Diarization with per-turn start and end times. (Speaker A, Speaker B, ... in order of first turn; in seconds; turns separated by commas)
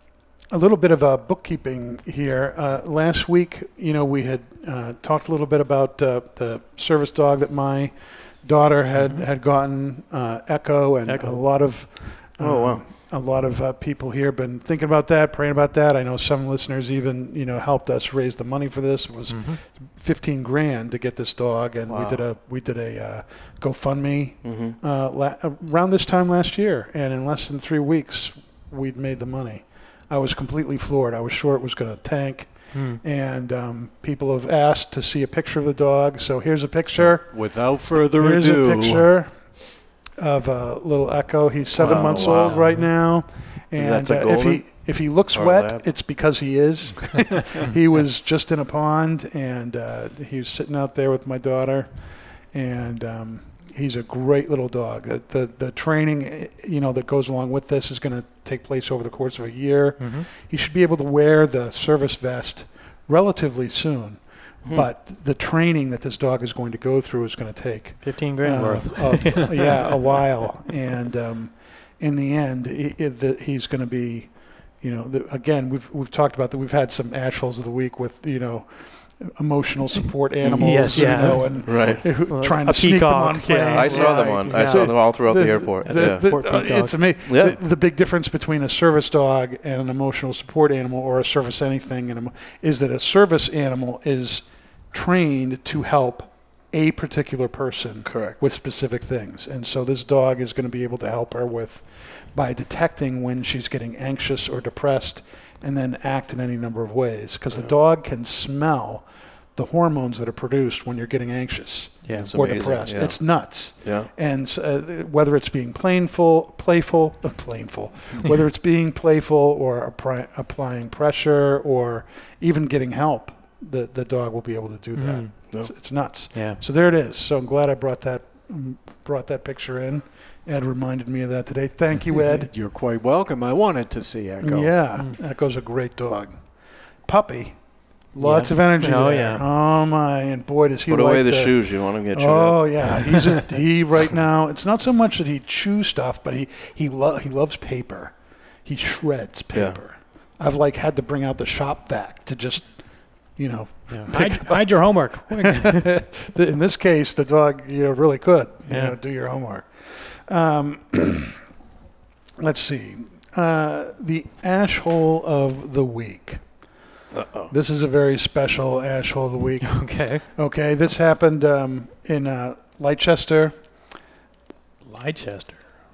Speaker A: 0.5-39.4, Speaker B: 8.9-9.2, Speaker B: 11.1-11.4, Speaker C: 12.4-12.9, Speaker B: 19.3-19.6, Speaker C: 21.9-22.2, Speaker C: 24.4-24.8, Speaker B: 32.7-33.0, Speaker D: 37.1-39.1, Speaker A: 40.2-51.9, Speaker C: 41.8-42.6, Speaker D: 42.0-42.5, Speaker B: 42.3-42.9, Speaker C: 43.8-44.7, Speaker C: 45.3-45.8, Speaker A: 52.5-132.5, Speaker B: 60.0-60.3, Speaker B: 68.0-69.9, Speaker C: 80.4-82.0, Speaker B: 80.5-87.0, Speaker C: 83.7-86.2, Speaker C: 87.3-87.6, Speaker C: 98.0-98.4, Speaker B: 112.0-112.3, Speaker C: 112.1-113.2, Speaker C: 113.7-114.1, Speaker B: 125.0-125.3, Speaker B: 126.3-126.6, Speaker D: 132.3-134.7, Speaker A: 134.4-136.4, Speaker A: 137.0-137.6, Speaker A: 138.1-148.1, Speaker B: 138.2-139.4, Speaker C: 140.9-143.0, Speaker A: 148.6-152.7, Speaker A: 153.3-161.4, Speaker B: 153.9-155.9, Speaker B: 158.7-158.9, Speaker A: 162.4-166.4, Speaker C: 167.1-167.5, Speaker A: 167.5-173.5, Speaker B: 169.6-170.2, Speaker B: 174.8-175.6